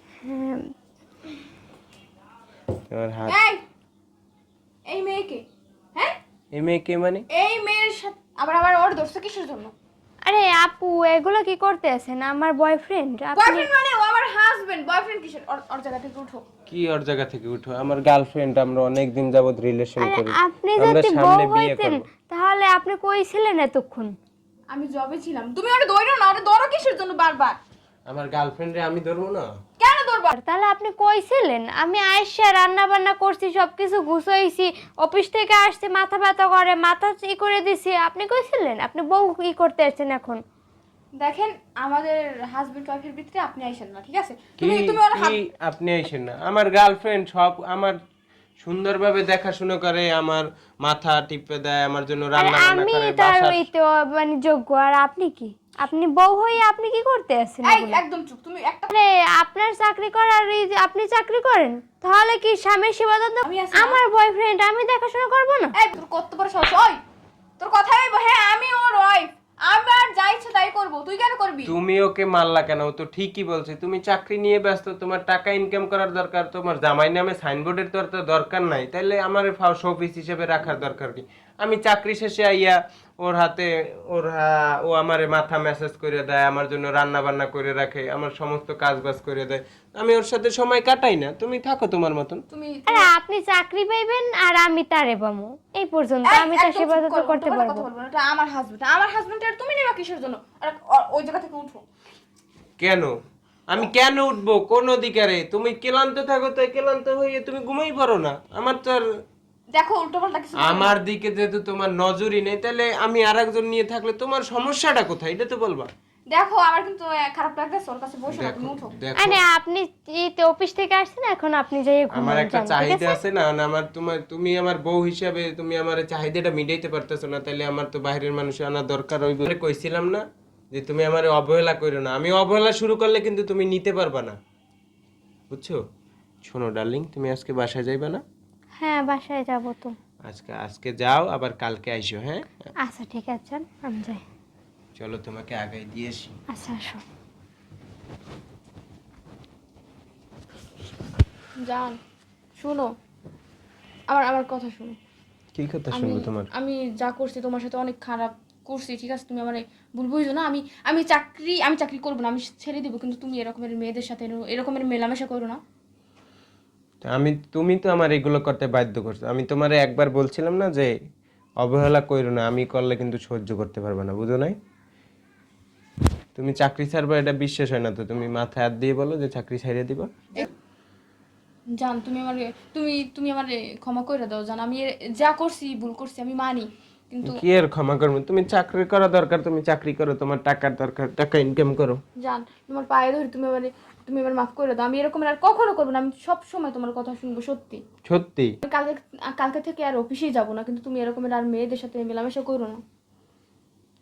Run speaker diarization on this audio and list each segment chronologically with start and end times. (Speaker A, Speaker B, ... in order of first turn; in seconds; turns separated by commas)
Speaker A: 0.2-0.6, Speaker B: 2.9-3.4, Speaker C: 3.3-3.6, Speaker C: 4.9-6.2, Speaker B: 6.5-7.2, Speaker C: 7.3-9.7, Speaker A: 10.2-13.7, Speaker C: 13.3-16.4, Speaker B: 16.7-22.0, Speaker A: 20.0-24.1, Speaker C: 24.7-27.6, Speaker B: 28.1-29.5, Speaker C: 29.8-30.3, Speaker A: 30.3-40.4, Speaker C: 41.2-45.4, Speaker B: 44.6-48.0, Speaker B: 48.6-53.6, Speaker A: 52.4-58.0, Speaker C: 57.6-58.9, Speaker A: 58.9-65.7, Speaker C: 63.4-64.0, Speaker C: 65.7-67.0, Speaker C: 67.6-71.7, Speaker B: 71.7-92.4, Speaker C: 92.5-93.1, Speaker A: 92.9-97.9, Speaker C: 96.2-101.8, Speaker B: 102.8-103.1, Speaker B: 103.7-109.1, Speaker C: 109.7-111.0, Speaker B: 110.6-115.9, Speaker C: 116.3-118.9, Speaker B: 118.3-119.4, Speaker A: 119.2-123.2, Speaker B: 122.1-134.4, Speaker B: 135.5-135.8, Speaker B: 136.4-138.2, Speaker A: 138.8-139.9, Speaker B: 140.3-142.5, Speaker A: 142.8-144.2, Speaker B: 145.0-146.4, Speaker A: 146.5-147.0, Speaker C: 151.6-152.0, Speaker C: 152.6-152.9, Speaker C: 154.1-155.0, Speaker B: 155.6-156.5, Speaker C: 155.9-165.6, Speaker B: 167.1-170.9, Speaker B: 171.6-174.6, Speaker B: 176.3-180.1, Speaker C: 181.7-187.4, Speaker B: 187.2-192.0, Speaker C: 192.2-197.8, Speaker B: 198.1-198.6, Speaker C: 198.6-202.8